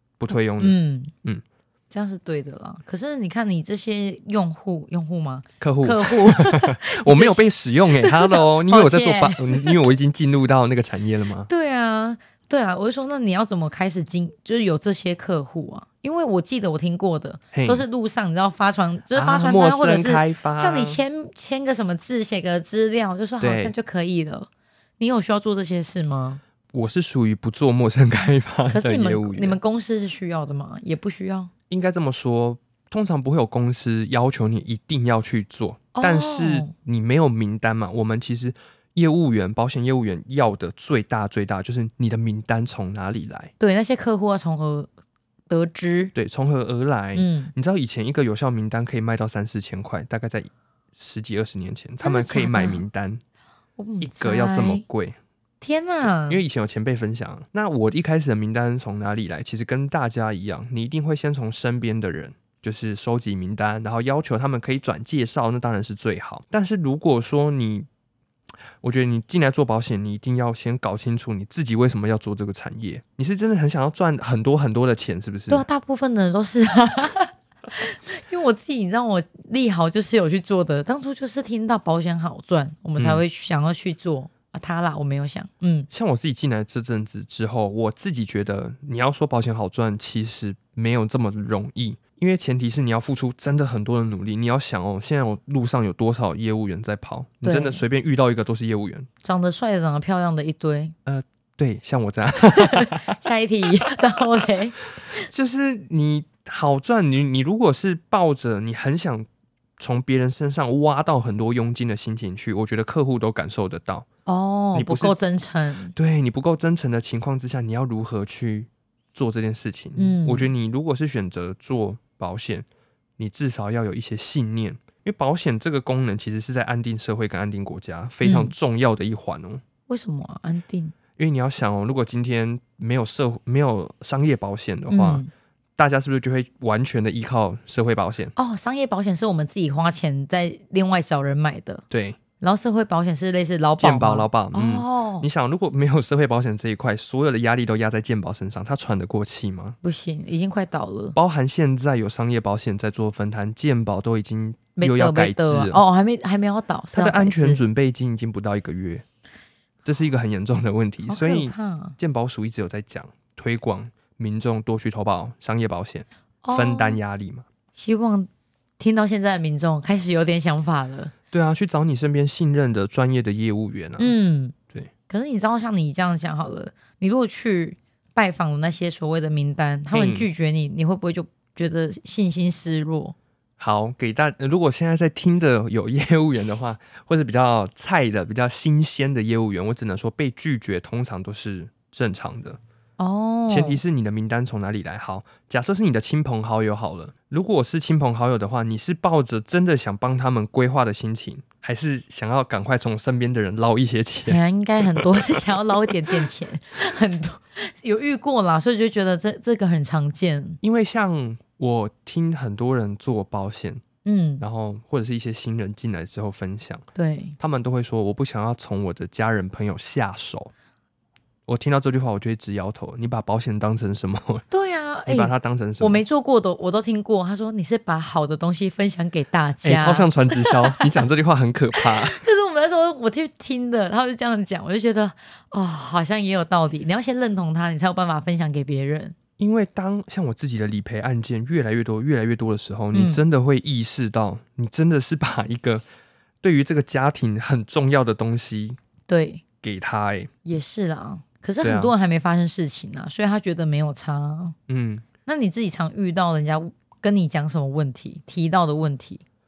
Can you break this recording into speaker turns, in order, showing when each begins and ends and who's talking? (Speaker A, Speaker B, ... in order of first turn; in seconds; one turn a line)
Speaker A: 0.2-1.4
Speaker B: 0.3-1.1
Speaker B: 1.9-7.4
Speaker A: 5.6-11.5
Speaker B: 8.0-9.8
Speaker B: 11.5-26.4
Speaker A: 17.5-17.9
Speaker A: 19.1-21.0
Speaker A: 23.4-23.7
Speaker A: 26.7-29.6
Speaker B: 28.7-31.5
Speaker A: 31.7-43.5
Speaker B: 36.0-36.7
Speaker B: 43.6-44.9
Speaker B: 45.5-46.1
Speaker A: 46.1-53.2
Speaker B: 47.1-47.5
Speaker B: 52.0-52.8
Speaker B: 53.8-54.8
Speaker A: 54.0-55.2
Speaker B: 55.6-56.4
Speaker A: 56.2-67.9
Speaker A: 68.8-75.7
Speaker B: 75.5-85.9
Speaker A: 83.0-83.2
Speaker A: 85.9-99.1
Speaker B: 97.4-97.8
Speaker B: 99.2-100.9
Speaker A: 101.1-103.2
Speaker B: 102.4-104.8
Speaker A: 105.0-109.3
Speaker A: 109.8-114.1
Speaker B: 114.3-116.0
Speaker A: 114.7-115.2
Speaker A: 116.0-122.7
Speaker B: 120.0-120.5
Speaker A: 123.2-129.6
Speaker B: 128.2-128.5
Speaker B: 129.9-131.0
Speaker A: 131.2-135.2
Speaker B: 134.9-135.3
Speaker A: 135.8-138.3
Speaker B: 138.4-141.8
Speaker A: 141.9-142.2
Speaker B: 142.4-145.3
Speaker A: 143.8-149.8
Speaker B: 149.8-151.2
Speaker A: 151.2-155.8
Speaker B: 154.8-157.6
Speaker A: 156.9-159.1
Speaker A: 159.8-167.5
Speaker B: 161.1-162.0
Speaker B: 166.4-167.0
Speaker B: 167.8-171.1
Speaker A: 171.3-174.2
Speaker B: 174.0-174.6
Speaker B: 175.1-183.2
Speaker A: 179.9-180.3
Speaker A: 183.6-192.6
Speaker B: 193.0-193.8
Speaker A: 193.5-205.4
Speaker B: 204.3-210.6
Speaker A: 210.6-213.8
Speaker B: 214.1-214.4
Speaker A: 214.4-216.8
Speaker B: 217.0-217.4
Speaker A: 217.4-220.5
Speaker A: 221.5-224.4
Speaker B: 224.5-230.9
Speaker A: 225.1-226.0
Speaker A: 229.6-232.2
Speaker B: 231.8-239.2
Speaker A: 239.4-245.8
Speaker B: 242.9-243.2
Speaker A: 246.4-248.8
Speaker B: 249.1-249.4
Speaker A: 249.6-250.3
Speaker B: 250.4-254.6
Speaker A: 251.6-251.9
Speaker A: 254.7-255.1
Speaker B: 255.3-259.2